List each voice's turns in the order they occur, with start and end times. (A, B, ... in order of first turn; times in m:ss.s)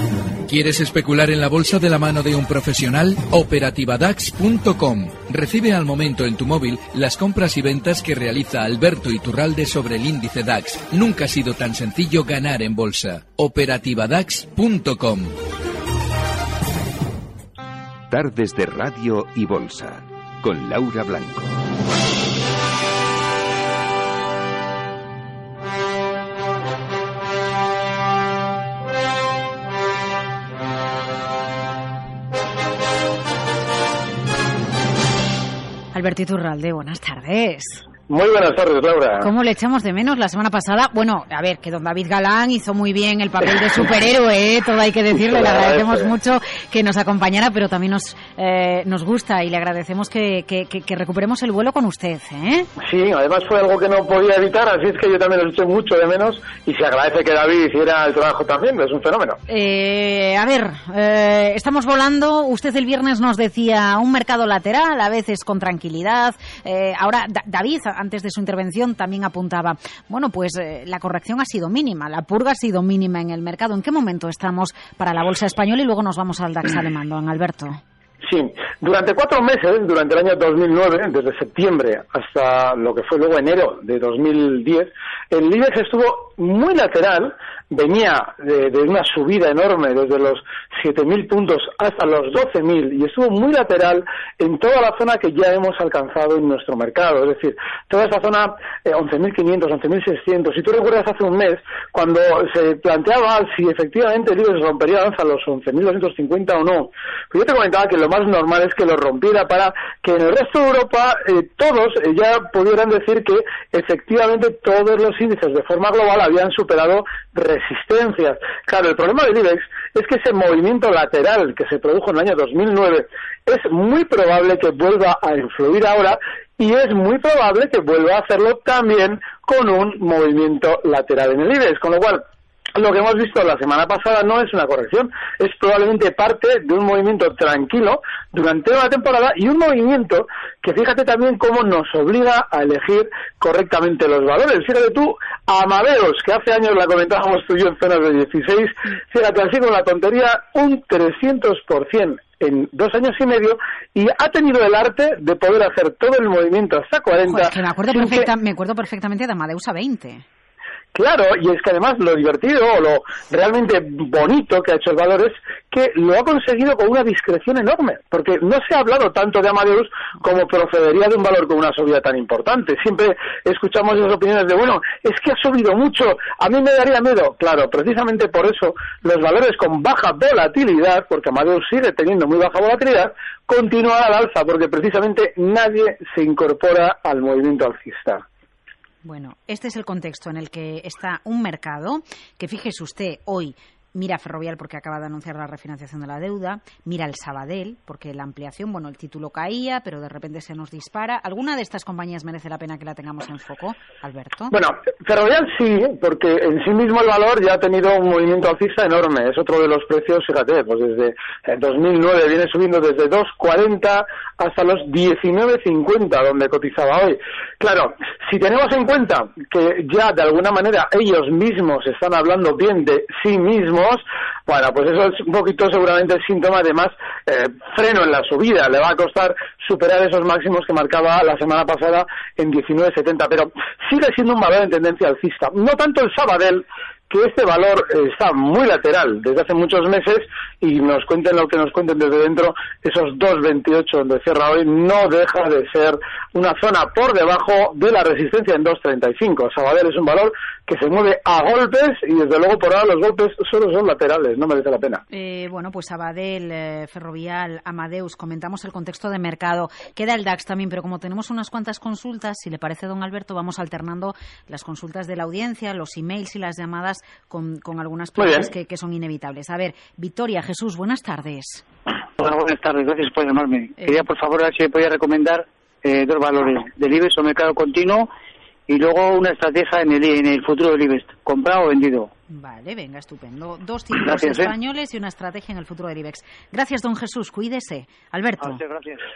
0:00.5-0:15.3 A
0:18.1-0:21.6 B
0:35.9-0:37.9 C
0:38.1-0:39.3 D
0:39.2-0:52.7 C
0:45.3-0:46.1 D
0:52.8-0:59.4 D
0:59.5-1:17.8 C
1:18.2-2:12.2 D
2:12.8-2:38.3 D
2:37.3-2:40.2 C
2:40.9-3:08.2 D
3:09.0-3:24.5 C
3:24.5-4:15.0 D
4:15.1-4:31.6 C
4:28.2-4:28.5 D
4:32.2-4:38.1 E
4:38.7-4:42.1 E
4:42.3-4:48.6 C
4:44.0-4:44.5 E
4:48.4-4:49.0 E